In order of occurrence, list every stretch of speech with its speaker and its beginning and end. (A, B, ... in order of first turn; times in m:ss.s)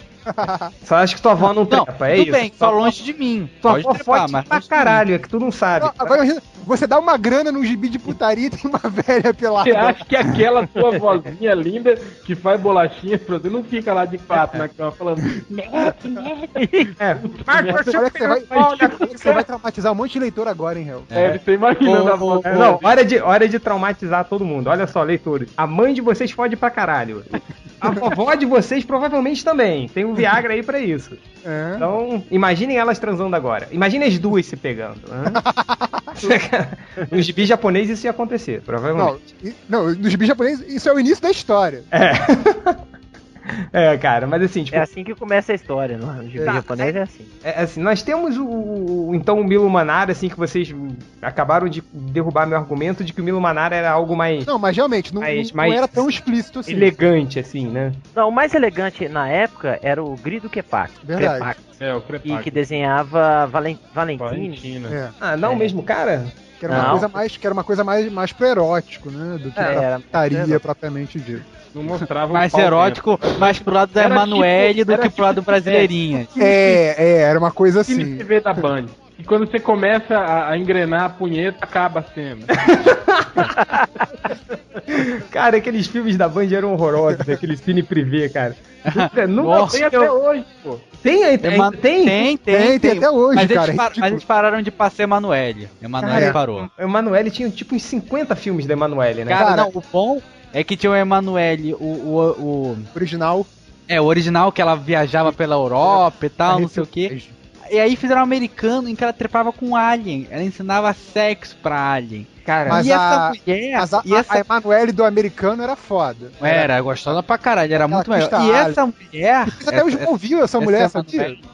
0:00.3-0:00.7 A
0:00.8-0:03.0 B
0:01.7-0:05.0 C
0:03.6-0:06.2 B
0:05.8-0:10.3 A
0:09.6-0:16.3 D
0:16.6-0:16.9 E
0:17.0-0:19.4 B
0:17.2-0:18.0 D
0:17.8-0:21.1 A
0:18.5-0:18.9 D
0:21.1-0:22.6 C
0:21.1-0:23.0 D
0:22.5-0:31.2 B
0:31.4-0:31.9 A
0:31.8-0:35.4 B
0:35.3-0:36.3 A
0:36.2-0:39.2 B
0:39.0-0:41.9 A
0:41.9-0:42.8 B
0:43.7-0:44.9 B
0:44.7-0:47.3 E
0:46.4-0:54.5 B
0:54.4-0:56.9 A
0:55.2-0:56.0 B
0:56.7-0:58.0 B
0:58.2-1:04.6 E
1:01.0-1:01.5 A
1:01.8-1:02.6 D
1:04.2-1:05.0 D
1:04.9-1:05.1 A
1:05.2-1:07.0 B
1:05.4-1:05.7 E
1:06.6-1:11.4 A
1:06.7-1:07.1 E
1:09.6-1:09.9 B
1:09.6-1:10.6 E
1:11.7-1:13.6 D
1:12.3-1:16.4 C
1:14.0-1:15.9 B
1:16.4-1:18.6 A
1:17.9-1:22.5 D
1:22.6-1:23.6 B
1:24.9-1:30.1 B
1:28.8-1:29.8 C
1:29.4-1:30.8 D
1:31.0-1:32.3 B
1:31.4-1:36.7 C
1:32.5-1:34.2 A
1:36.0-1:39.5 B
1:36.0-1:36.4 A
1:39.3-1:42.9 C
1:39.3-1:39.7 A
1:42.9-1:43.5 A
1:43.9-1:47.2 C
1:46.5-1:47.3 A
1:47.7-1:54.4 C
1:52.4-1:52.8 B
1:52.7-1:57.2 A
1:56.4-2:01.4 C
1:57.8-1:58.8 A
1:59.5-2:01.4 A